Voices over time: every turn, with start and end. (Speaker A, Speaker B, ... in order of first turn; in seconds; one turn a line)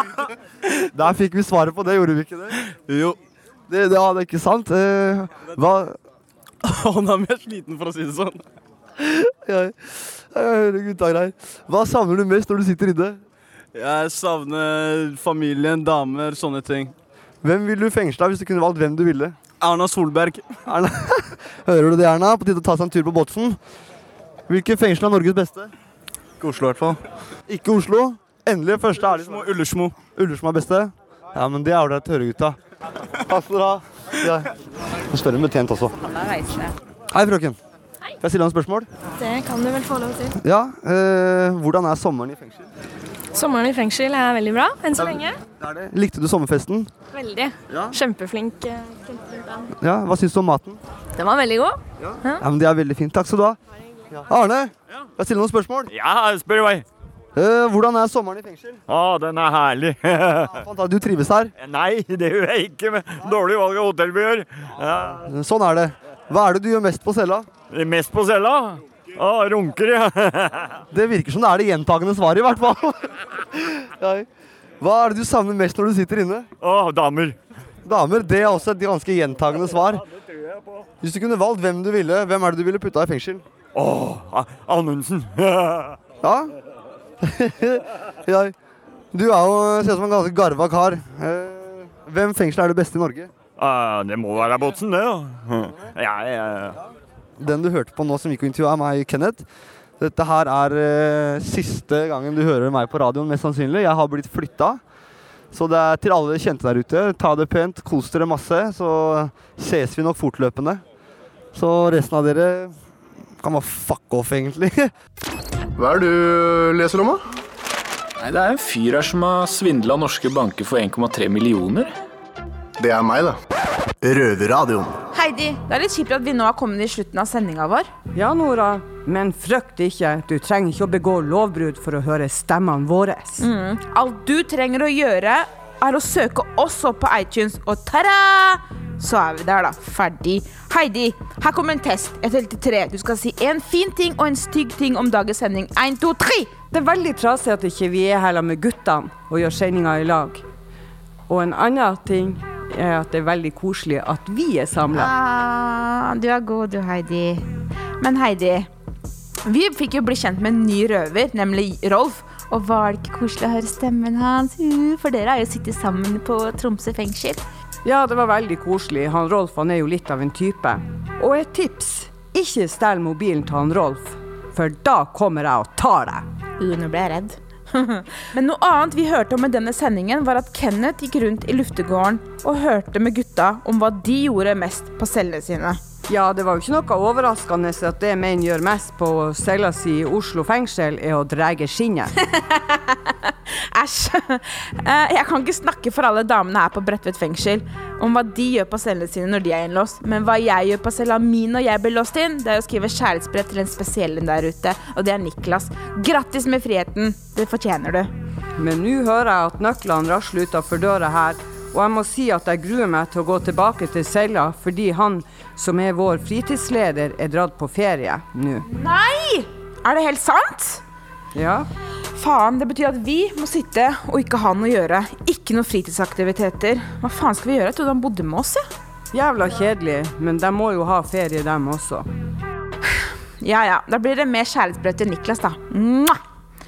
Speaker A: 0.9-2.5
Speaker B: 2.7-3.2
Speaker A: 3.7-6.0
Speaker B: 6.6-8.4
Speaker A: 9.0-13.2
Speaker B: 13.7-16.9
Speaker A: 17.4-19.4
Speaker B: 19.6-20.6
Speaker A: 20.7-23.6
Speaker A: 24.5-25.7
Speaker B: 26.4-27.0
Speaker A: 27.5-32.6
Speaker B: 29.0-30.0
Speaker A: 33.3-34.5
Speaker A: 35.1-36.0
Speaker C: 36.2-36.7
Speaker A: 37.1-37.6
Speaker A: 38.2-38.9
Speaker D: 39.2-40.4
Speaker A: 40.4-42.7
Speaker D: 43.3-45.4
Speaker A: 45.0-46.9
Speaker D: 47.1-49.7
Speaker A: 49.8-50.8
Speaker D: 51.2-52.4
Speaker A: 52.0-53.6
Speaker A: 54.1-55.9
Speaker E: 55.9-56.9
Speaker A: 57.4-58.8
Speaker E: 58.9-60.7
Speaker A: 60.6-61.5
Speaker E: 61.6-65.3
Speaker A: 65.3-67.5
Speaker E: 67.7-70.8
Speaker A: 70.9-74.3
Speaker A: 74.8-76.5
Speaker E: 76.6-77.4
Speaker A: 77.8-80.0
Speaker A: 81.0-83.5
Speaker E: 83.7-86.0
Speaker A: 86.2-86.5
Speaker A: 87.2-88.5
Speaker A: 89.1-93.3
Speaker E: 93.6-96.8
Speaker A: 97.4-99.5
Speaker A: 100.0-104.8
Speaker A: 105.5-110.8
Speaker A: 111.5-112.8
Speaker A: 113.4-114.9
Speaker F: 115.8-117.2
Speaker G: 118.3-121.9
Speaker F: 122.8-123.4
Speaker F: 124.0-125.0
Speaker C: 125.1-127.9
Speaker H: 128.2-133.4
Speaker C: 133.4-146.5
Speaker H: 146.7-150.4
Speaker H: 151.3-155.1
Speaker C: 154.9-157.4
Speaker C: 158.0-158.7
Speaker C: 159.4-167.4
Speaker H: 167.8-176.3
Speaker C: 176.6-185.8
Speaker H: 186.1-192.1
Speaker C: 192.3-208.1
Speaker H: 208.6-218.7
Speaker C: 218.7-220.8
Speaker H: 221.3-221.7
Speaker C: 222.2-228.7
Speaker H: 229.1-232.1
Speaker C: 232.9-236.2